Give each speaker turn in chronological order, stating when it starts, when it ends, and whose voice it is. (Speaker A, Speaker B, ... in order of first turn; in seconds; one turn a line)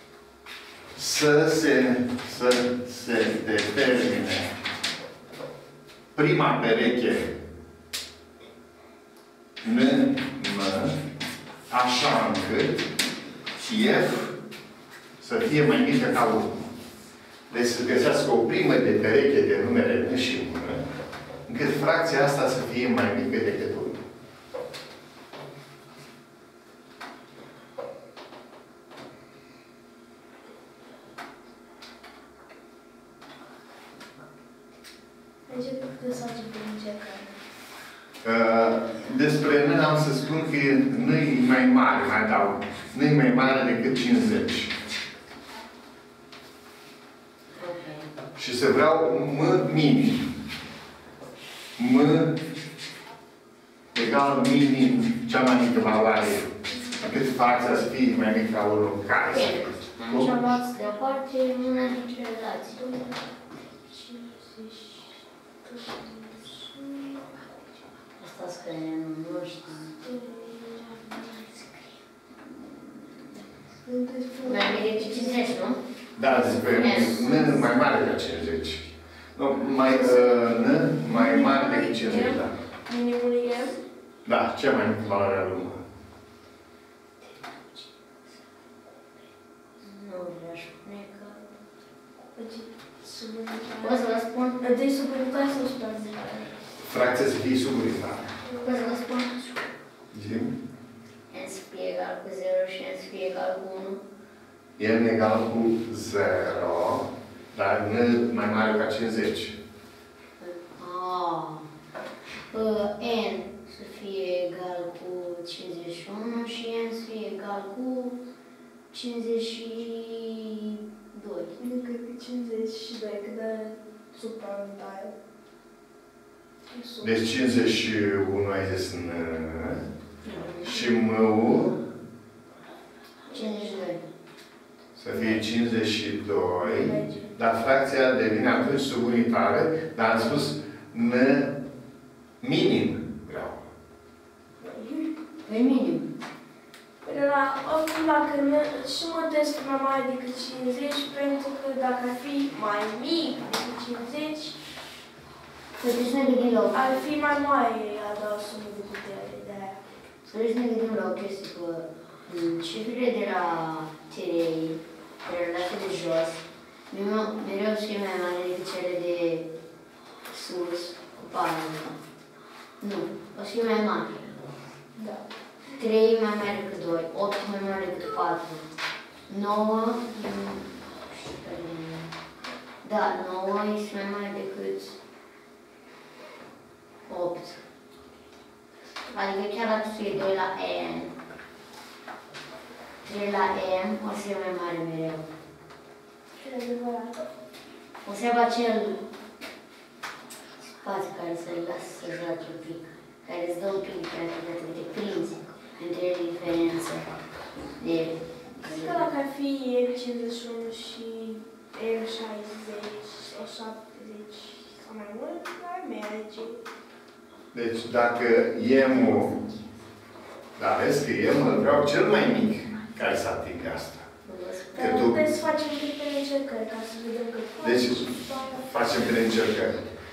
Speaker A: 0.9-4.5
Speaker A: 6.1-7.3
Speaker A: 9.6-11.0
Speaker A: 11.7-12.9
Speaker A: 13.6-14.3
Speaker A: 15.2-16.7
Speaker A: 17.5-20.8
Speaker A: 21.4-24.0
Speaker B: 35.5-37.3
Speaker A: 38.2-44.7
Speaker C: 47.5-48.1
Speaker A: 48.4-50.3
Speaker A: 51.8-52.4
Speaker A: 53.9-60.4
Speaker C: 59.3-62.9
Speaker B: 60.1-60.7
Speaker B: 63.9-65.1
Speaker B: 65.6-67.3
Speaker C: 68.2-69.9
Speaker B: 70.0-71.3
Speaker B: 73.8-75.6
Speaker C: 74.4-75.8
Speaker A: 76.2-82.5
Speaker C: 76.5-77.6
Speaker B: 79.9-80.5
Speaker B: 81.0-83.8
Speaker A: 84.2-85.8
Speaker C: 89.8-91.4
Speaker B: 92.3-94.1
Speaker C: 93.8-94.6
Speaker B: 94.6-96.6
Speaker A: 96.9-98.3
Speaker C: 98.6-99.5
Speaker A: 100.1-100.5
Speaker C: 101.3-104.0
Speaker A: 104.8-109.6
Speaker C: 110.4-111.7
Speaker C: 112.5-118.2
Speaker C: 118.9-121.6
Speaker B: 121.6-125.1
Speaker B: 126.7-127.2
Speaker A: 127.0-129.9
Speaker C: 130.2-130.9
Speaker A: 130.6-131.8
Speaker C: 133.3-134.0
Speaker A: 135.0-141.6
Speaker B: 136.6-137.3
Speaker A: 142.4-143.6
Speaker B: 144.6-145.1
Speaker C: 145.5-146.1
Speaker B: 147.0-154.6
Speaker C: 155.8-156.8
Speaker B: 156.7-159.8
Speaker C: 160.3-166.4
Speaker C: 166.9-169.5
Speaker C: 170.3-171.9
Speaker C: 172.8-174.5
Speaker B: 174.9-175.2
Speaker C: 175.8-178.6
Speaker C: 179.3-182.1
Speaker C: 182.8-185.0
Speaker C: 187.1-187.6
Speaker C: 189.1-191.1
Speaker C: 193.0-195.3
Speaker B: 196.4-197.3
Speaker C: 198.0-199.0
Speaker C: 200.8-207.1
Speaker C: 207.8-209.0
Speaker B: 208.6-216.6
Speaker A: 217.5-219.3
Speaker A: 220.6-224.1
Speaker C: 224.2-225.0
Speaker B: 224.7-228.7
Speaker A: 224.8-225.3
Speaker A: 227.6-228.1
Speaker A: 228.7-229.8